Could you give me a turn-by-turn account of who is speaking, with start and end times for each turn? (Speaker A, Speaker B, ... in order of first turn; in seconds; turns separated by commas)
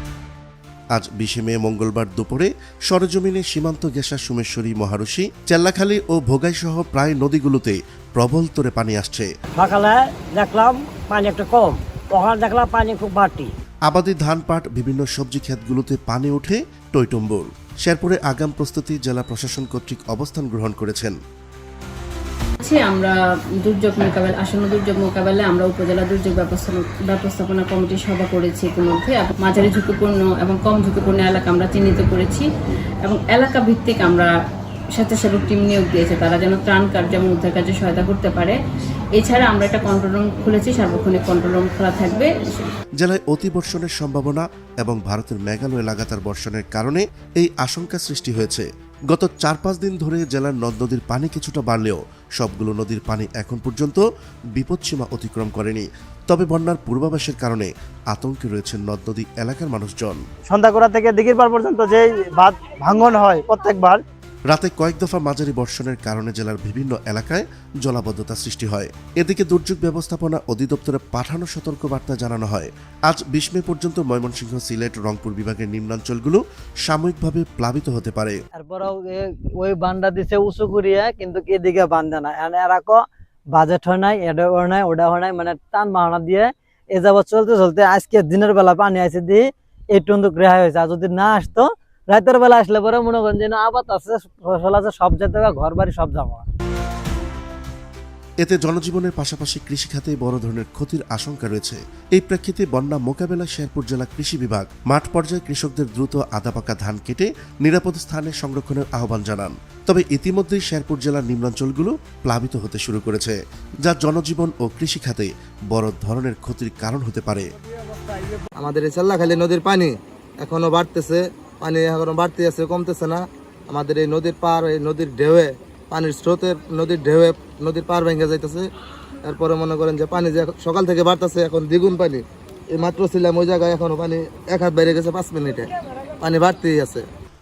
Speaker A: 0.9-9.3, Speaker B: 9.6-13.5, Speaker A: 13.9-21.2, Speaker C: 22.6-32.5, Speaker C: 33.0-34.3, Speaker C: 35.0-38.6, Speaker C: 39.1-42.7, Speaker A: 43.0-54.0, Speaker A: 54.5-60.2, Speaker D: 60.5-64.0, Speaker A: 64.5-78.4, Speaker D: 78.5-83.0, Speaker D: 83.5-96.4, Speaker A: 98.4-117.5, Speaker E: 118.6-128.7, Speaker E: 129.2-135.7, Speaker E: 136.2-137.1